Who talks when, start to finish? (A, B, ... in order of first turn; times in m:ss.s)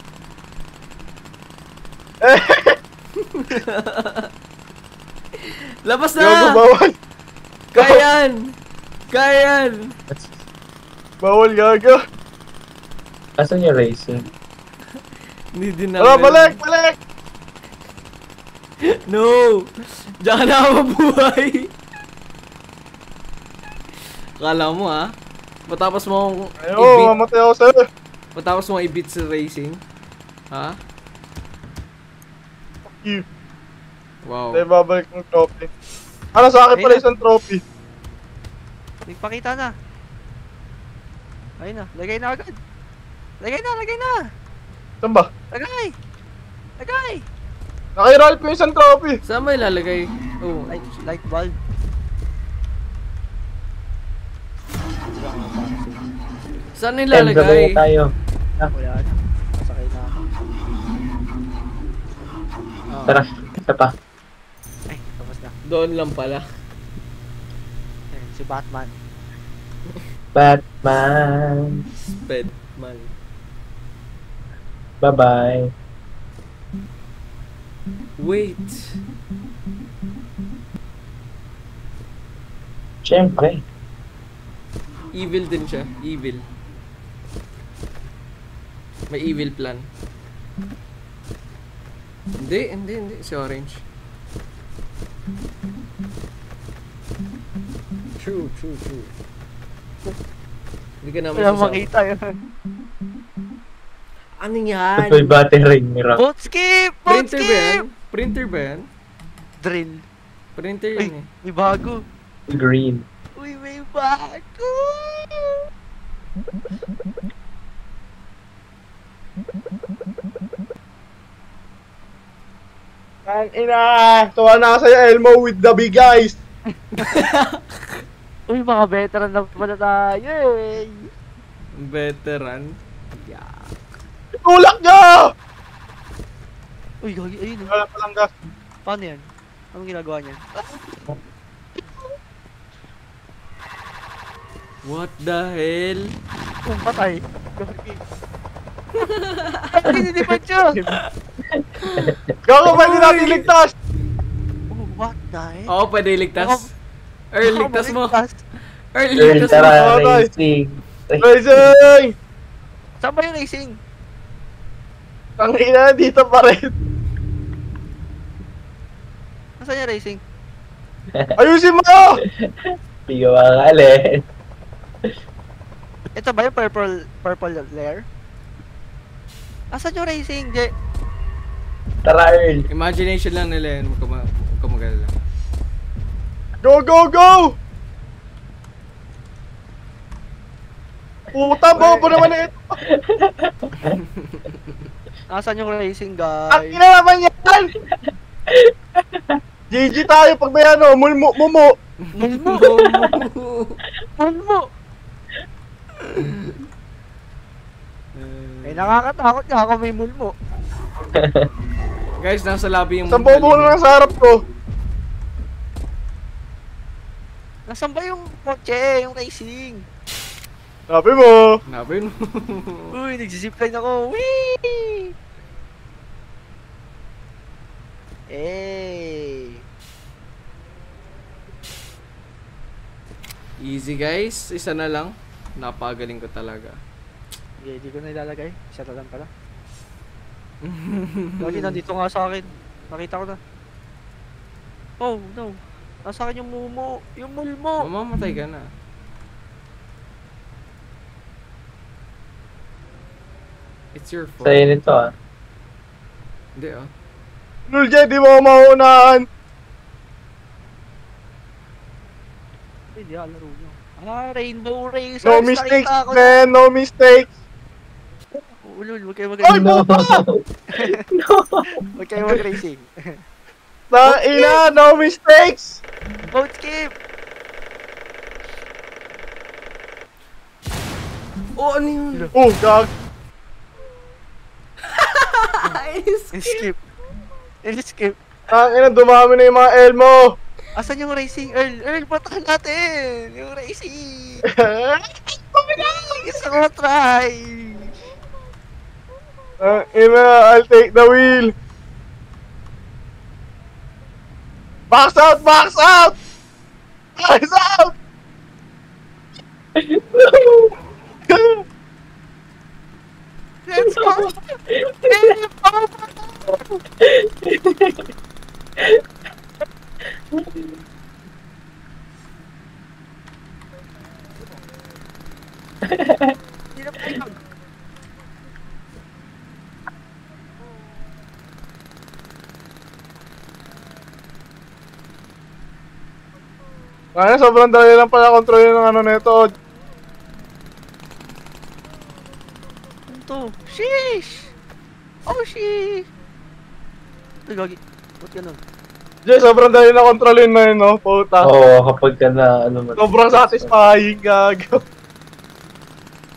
0:02.2-0:02.8 A
0:03.2-0:04.3 B
0:05.4-0:06.6 B
0:06.2-0:07.0 A
0:07.7-0:08.6 B
0:07.8-0:08.0 A
0:09.1-0:09.9 B
0:11.2-0:12.0 A
0:13.4-0:14.3 C
0:15.5-0:16.6 B
0:16.0-0:17.0 A
0:18.8-0:21.7 B
0:24.4-0:25.1 B
0:25.7-0:27.1 B
0:26.6-0:27.8 A
0:28.3-0:29.8 B
0:30.5-0:30.8 B
0:32.8-0:33.2 A
0:34.2-0:34.6 B
0:34.5-0:35.7 A
0:36.3-0:37.6 A
0:36.7-0:37.0 D
0:39.1-0:39.7 D
0:41.6-0:42.5 D
0:43.4-0:44.3 D
0:45.0-0:45.3 A
0:45.5-0:45.9 D
0:46.8-0:47.2 D
0:48.0-0:49.2 A
0:49.2-0:51.1 B
0:50.7-0:51.5 D
0:55.1-0:56.0 D
0:56.8-0:57.8 B
0:57.1-0:58.7 C
0:58.7-1:00.1 D
1:02.9-1:03.2 B
1:03.1-1:03.9 C
1:04.9-1:05.5 D
1:05.6-1:06.4 B
1:08.1-1:08.9 D
1:10.3-1:11.8 C
1:12.2-1:13.1 B
1:15.0-1:15.7 C
1:18.2-1:19.0 B
1:23.0-1:23.6 C
1:25.1-1:26.4 B
1:29.1-1:29.9 B
1:32.4-1:33.8 B
1:38.2-1:39.1 B
1:41.0-1:41.9 B
1:41.4-1:42.2 D
1:44.4-1:45.4 B
1:45.0-1:46.2 C
1:46.2-1:47.8 D
1:47.1-1:48.9 B
1:49.6-1:50.0 D
1:50.6-1:51.2 B
1:51.0-1:52.0 D
1:52.5-1:53.0 C
1:53.4-1:55.6 D
2:03.3-2:06.4 A
2:07.0-2:08.0 B
2:08.5-2:11.1 D
2:11.8-2:14.0 B
2:14.4-2:15.3 A
2:17.0-2:17.7 D
2:17.7-2:18.3 A
2:18.8-2:20.7 D
2:24.8-2:26.1 B
2:26.6-2:28.0 D
2:29.0-2:30.0 B
2:29.7-2:30.8 D
2:31.5-2:32.3 C
2:31.8-2:32.1 B
2:32.4-2:33.7 A
2:32.6-2:33.5 B
2:34.7-2:35.7 D
2:35.7-2:36.7 B
2:36.4-2:36.7 D
2:37.3-2:38.1 B
2:37.4-2:38.4 D
2:38.9-2:39.8 B
2:39.2-2:41.3 C
2:39.4-2:40.3 A
2:41.2-2:42.1 A
2:43.0-2:43.8 D
2:45.4-2:46.7 A
2:49.6-2:50.2 D
2:51.4-2:52.2 A
2:52.4-2:54.2 C
2:56.2-2:58.0 D
2:59.7-3:00.7 D
3:02.0-3:02.7 C
3:02.7-3:05.1 B
3:06.6-3:07.5 A
3:11.3-3:12.8 A
3:11.8-3:12.0 D
3:12.8-3:14.0 C
3:13.8-3:14.5 B
3:15.3-3:16.8 D
3:16.5-3:17.7 A
3:18.5-3:19.4 C
3:19.7-3:21.7 A
3:22.0-3:23.8 B
3:22.2-3:22.7 D
3:24.2-3:24.7 D
3:26.0-3:26.6 B
3:28.1-3:28.9 B
3:28.6-3:30.3 D
3:31.1-3:31.5 C
3:32.2-3:33.8 B
3:33.1-3:34.4 A
3:37.7-3:39.8 D
3:40.9-3:41.6 A
3:41.7-3:42.9 B
3:42.9-3:45.1 D
3:48.3-3:49.6 D
3:53.6-3:56.8 B
3:57.6-3:59.3 D
4:00.6-4:01.8 B
4:01.4-4:03.4 D
4:05.0-4:07.9 D
4:07.8-4:08.7 B
4:13.9-4:14.6 B
4:14.4-4:15.1 C
4:16.6-4:16.9 B
4:17.7-4:19.2 A
4:22.9-4:26.4 D
4:25.2-4:27.3 A
4:28.6-4:29.7 D
4:29.4-4:30.2 A
4:29.5-4:31.7 C
4:31.9-4:33.2 D
4:33.9-4:35.8 A
4:34.0-4:34.6 D
4:36.3-4:36.9 D
4:41.6-4:42.3 B
4:42.4-4:42.9 A
4:44.9-4:46.6 B
4:46.3-4:46.8 D
4:47.6-4:48.2 D
4:48.5-4:50.3 A
4:50.8-4:54.4 D
4:54.5-4:56.2 A
4:56.1-4:58.0 D
4:59.6-5:01.5 A
5:04.9-5:06.2 A
5:07.2-5:07.9 A
5:09.8-5:10.7 C
5:11.3-5:11.6 A
5:13.6-5:16.8 D
5:13.8-5:15.3 C
5:17.0-5:18.0 C
5:20.3-5:20.7 C
5:25.8-5:26.3 C
5:26.7-5:27.4 D
5:37.2-5:39.5 A
5:43.1-5:44.5 D
5:45.3-5:46.0 D
5:47.5-5:48.6 D
5:49.3-5:51.5 A
5:51.4-5:53.7 C
5:53.0-5:54.8 A